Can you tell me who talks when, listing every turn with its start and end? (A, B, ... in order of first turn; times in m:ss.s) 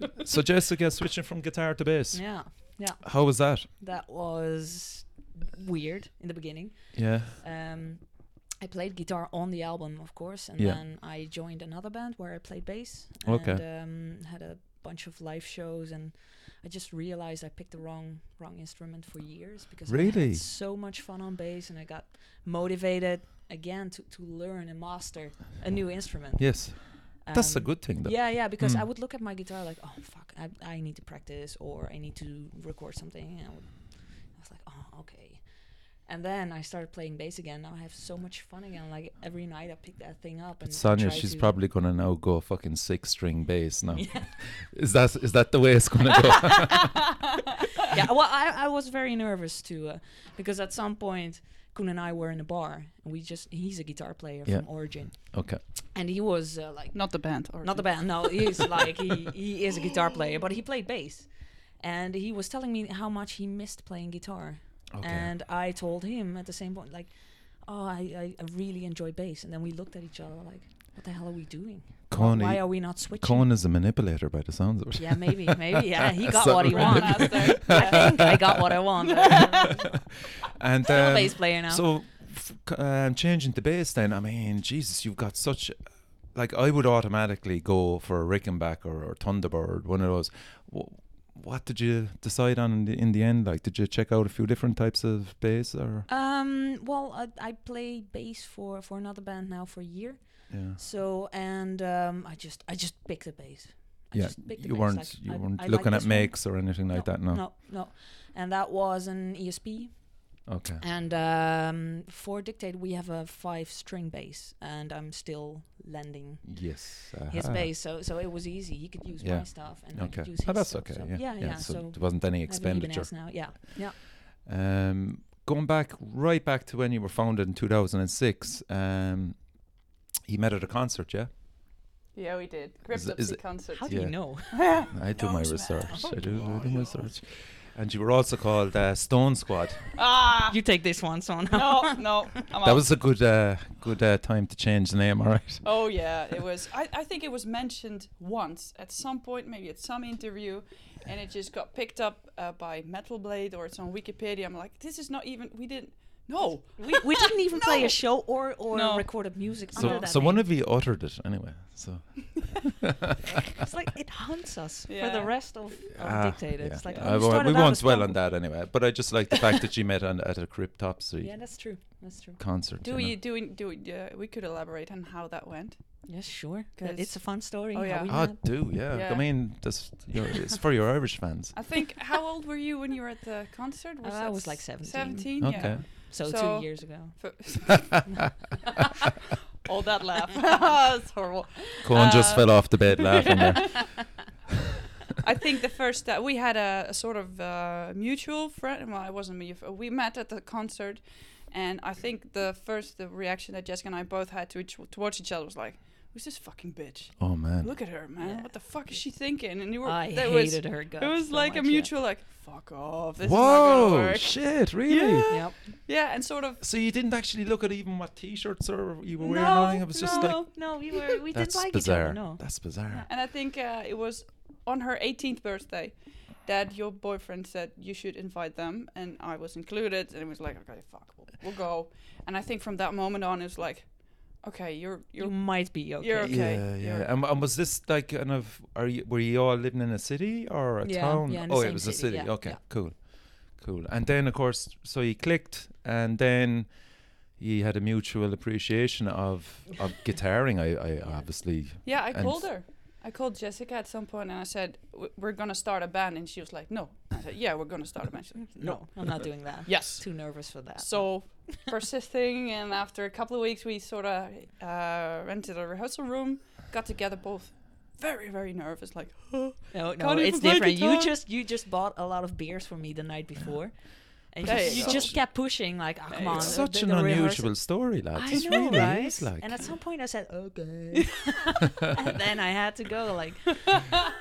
0:00.2-0:03.7 A
0:02.1-0:41.6 B
0:06.9-0:07.4 A
0:13.2-0:13.6 A
0:19.9-0:20.4 A
0:26.4-0:28.8 A
0:40.6-0:47.1 A
0:43.9-0:44.4 B
0:47.9-1:13.5 B
0:54.4-0:55.6 A
0:56.9-0:58.7 C
1:04.9-1:05.3 A
1:12.1-1:18.7 A
1:15.0-1:20.0 B
1:16.6-1:18.4 C
1:19.0-1:19.8 C
1:20.5-1:36.1 A
1:20.8-1:21.9 B
1:36.1-2:04.0 B
1:40.5-1:40.8 A
1:44.1-1:47.4 A
1:50.5-1:50.8 A
1:56.4-1:57.7 A
1:59.2-2:09.6 A
2:10.3-2:11.3 A
2:12.1-2:17.1 C
2:12.9-2:19.9 A
2:13.7-2:15.0 B
2:20.0-2:20.6 C
2:20.5-2:22.4 B
2:21.5-2:22.9 C
2:22.6-2:26.2 A
2:25.6-2:38.0 C
2:36.8-2:40.5 B
2:38.7-2:40.1 C
2:39.7-2:42.9 A
2:43.3-2:48.3 B
2:44.9-2:45.6 C
2:46.0-2:51.6 A
2:46.8-2:47.3 C
2:51.2-2:52.4 B
2:52.4-2:53.2 A
2:52.8-2:56.1 C
2:56.1-2:58.6 B
2:56.8-2:59.8 C
2:58.1-3:01.7 A
3:01.6-3:08.4 C
3:04.0-3:07.8 B
3:05.4-3:05.8 A
3:09.6-3:13.9 C
3:11.8-3:14.3 A
3:15.1-3:36.6 C
3:27.2-3:27.8 A
3:28.2-3:29.1 B
3:29.8-3:31.9 B
3:33.2-3:35.3 A
3:35.3-3:35.6 B
3:36.6-3:40.7 A
3:39.2-3:41.0 C
3:39.3-3:43.1 B
3:41.3-3:43.1 A
3:43.1-3:57.1 C
3:55.2-3:56.5 B
3:56.2-4:12.5 A
4:00.8-4:02.6 B
4:11.0-4:11.3 B
4:11.8-4:31.2 C
4:18.5-4:21.6 B
4:29.7-4:43.9 B
4:34.4-4:35.3 A
4:34.4-4:35.3 C
4:36.1-4:36.6 C
4:36.3-4:39.7 A
4:38.3-4:38.9 C